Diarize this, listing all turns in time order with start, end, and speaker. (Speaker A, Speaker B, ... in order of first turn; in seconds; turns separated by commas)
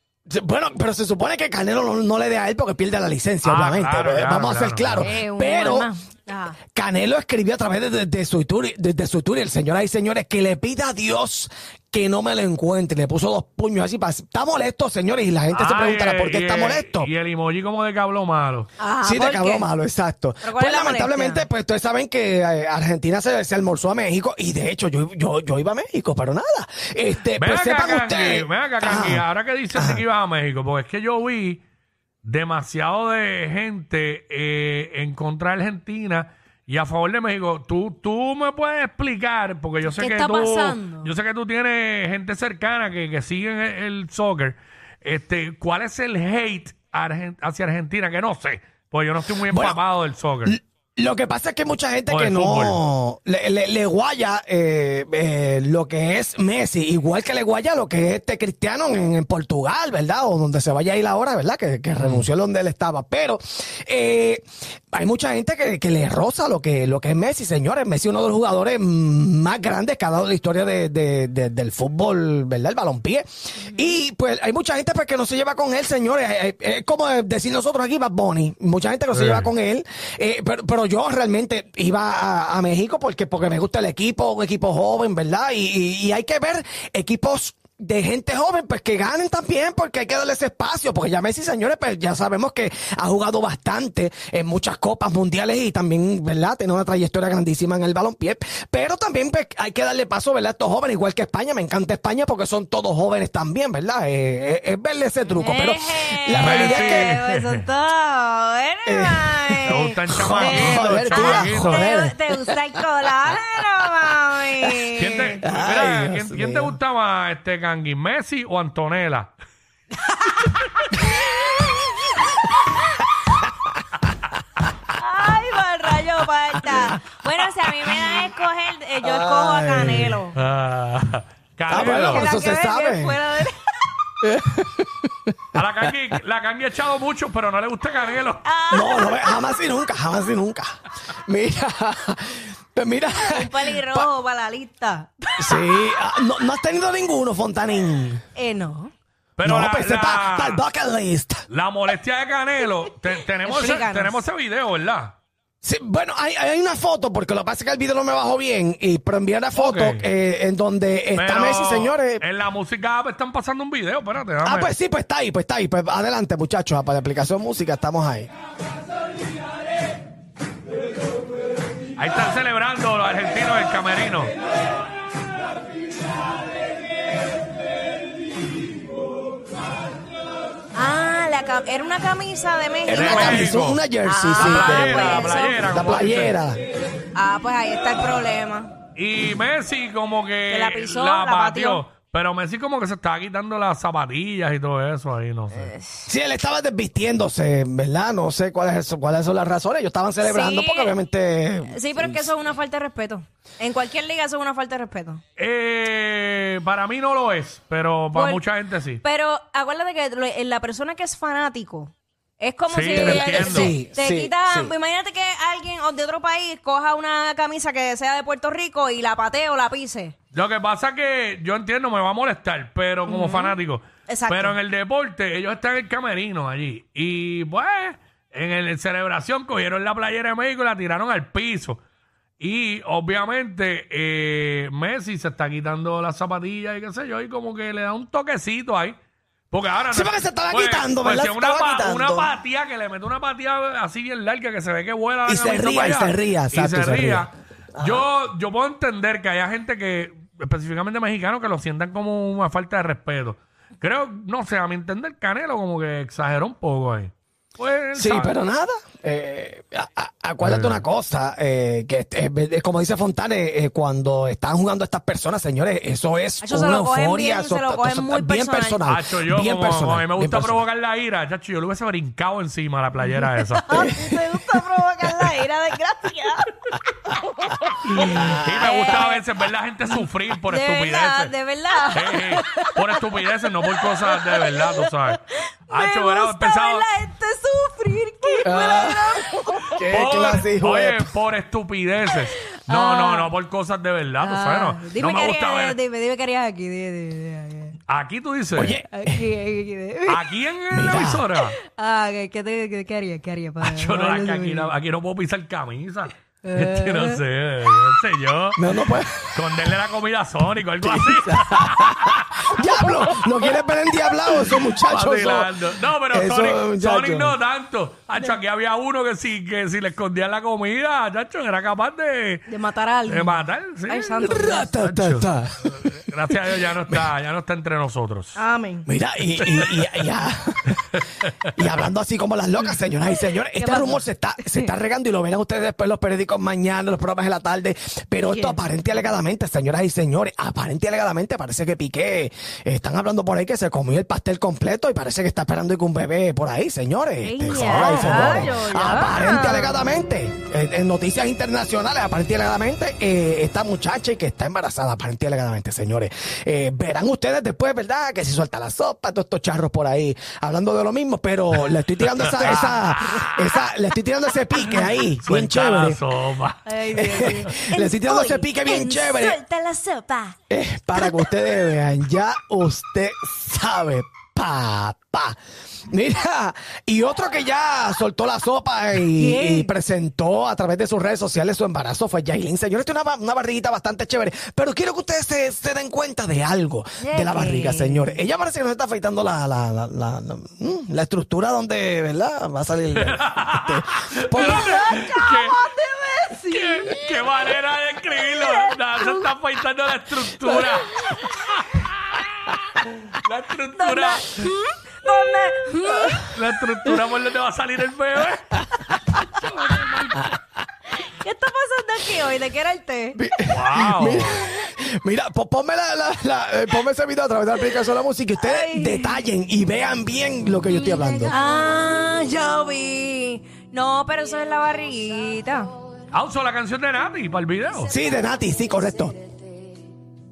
Speaker A: 0.3-5.9, Speaker B: 3.4-5.1, Speaker C: 5.0-6.6, Speaker A: 6.7-17.1, Speaker B: 15.5-18.7, Speaker C: 18.8-19.7, Speaker A: 19.0-30.0, Speaker C: 20.4-21.5, Speaker B: 27.4-31.6, Speaker B: 32.2-50.6, Speaker C: 39.9-41.1, Speaker A: 49.4-49.8, Speaker A: 50.5-107.2, Speaker B: 52.1-52.8, Speaker B: 62.0-62.3, Speaker C: 73.6-73.9, Speaker B: 79.1-79.5, Speaker C: 105.3-115.4, Speaker B: 106.4-107.6, Speaker A: 108.9-112.5, Speaker B: 109.6-111.9, Speaker B: 115.0-119.3, Speaker A: 115.4-116.8, Speaker C: 120.0-123.0, Speaker C: 124.9-130.4, Speaker A: 129.0-130.2, Speaker B: 130.3-132.3, Speaker A: 131.7-133.2, Speaker C: 131.7-133.9, Speaker A: 134.2-135.6, Speaker B: 135.5-138.5, Speaker C: 138.4-139.6, Speaker A: 138.7-144.1, Speaker C: 143.2-146.0, Speaker A: 145.4-148.2, Speaker C: 148.3-148.9, Speaker B: 149.4-150.7, Speaker A: 149.4-151.5, Speaker B: 151.5-155.2, Speaker C: 153.4-154.2, Speaker A: 155.6-162.2, Speaker B: 159.5-160.1, Speaker B: 161.2-164.7, Speaker A: 164.4-168.3, Speaker B: 172.0-174.3, Speaker C: 180.8-183.5, Speaker A: 182.9-186.6, Speaker B: 182.9-183.8, Speaker C: 184.1-185.7, Speaker B: 184.4-186.4, Speaker C: 187.2-188.7, Speaker B: 188.9-195.7, Speaker C: 190.5-191.8, Speaker C: 195.5-196.1, Speaker A: 196.1-202.3, Speaker C: 200.2-201.0, Speaker C: 201.7-205.2, Speaker B: 205.4-209.0, Speaker C: 208.1-208.4, Speaker C: 209.0-220.2, Speaker B: 212.7-213.7, Speaker A: 212.9-214.7, Speaker B: 220.3-231.8, Speaker C: 223.1-224.6, Speaker B: 232.4-239.0, Speaker B: 239.5-258.3, Speaker A: 239.9-242.3, Speaker A: 245.2-248.1, Speaker A: 257.9-270.6, Speaker B: 260.4-260.8, Speaker C: 266.4-268.8, Speaker B: 268.9-273.7, Speaker C: 273.5-276.5, Speaker A: 273.7-274.2, Speaker B: 277.9-281.3, Speaker A: 278.0-278.5, Speaker C: 278.2-279.2, Speaker C: 280.5-282.8, Speaker B: 281.9-285.2, Speaker C: 283.8-289.7, Speaker B: 285.7-286.9, Speaker A: 288.4-291.1, Speaker B: 289.9-295.8, Speaker C: 292.6-293.3, Speaker C: 294.2-297.8, Speaker B: 297.9-298.8, Speaker A: 298.6-299.3, Speaker C: 298.9-300.2, Speaker B: 300.1-301.6, Speaker A: 300.7-301.2, Speaker C: 301.4-304.7, Speaker B: 303.6-308.6, Speaker C: 306.4-307.2, Speaker A: 308.6-309.6, Speaker B: 309.3-312.5, Speaker A: 310.8-317.4, Speaker B: 314.9-322.5, Speaker C: 322.5-324.7, Speaker B: 323.1-328.4, Speaker A: 324.2-327.0, Speaker C: 328.4-328.9, Speaker A: 328.9-331.0, Speaker B: 329.4-330.1, Speaker A: 331.6-366.0, Speaker C: 333.6-334.7, Speaker C: 338.3-338.6, Speaker C: 347.2-349.8, Speaker B: 347.6-348.5, Speaker B: 361.7-363.7, Speaker C: 362.4-363.0, Speaker B: 364.6-367.4, Speaker C: 366.7-370.4, Speaker A: 366.9-369.4, Speaker A: 370.5-375.4, Speaker C: 370.9-371.3, Speaker A: 375.9-394.8, Speaker C: 379.1-379.7, Speaker C: 387.0-388.2, Speaker B: 393.0-395.6, Speaker C: 394.4-397.2, Speaker B: 396.5-404.5, Speaker C: 398.3-399.3, Speaker C: 403.8-406.3, Speaker B: 406.1-408.6, Speaker B: 409.4-410.3, Speaker C: 411.0-413.2, Speaker A: 413.1-421.3, Speaker B: 413.5-414.5, Speaker C: 418.4-419.2, Speaker C: 421.3-425.7, Speaker B: 426.1-427.9, Speaker A: 427.9-429.1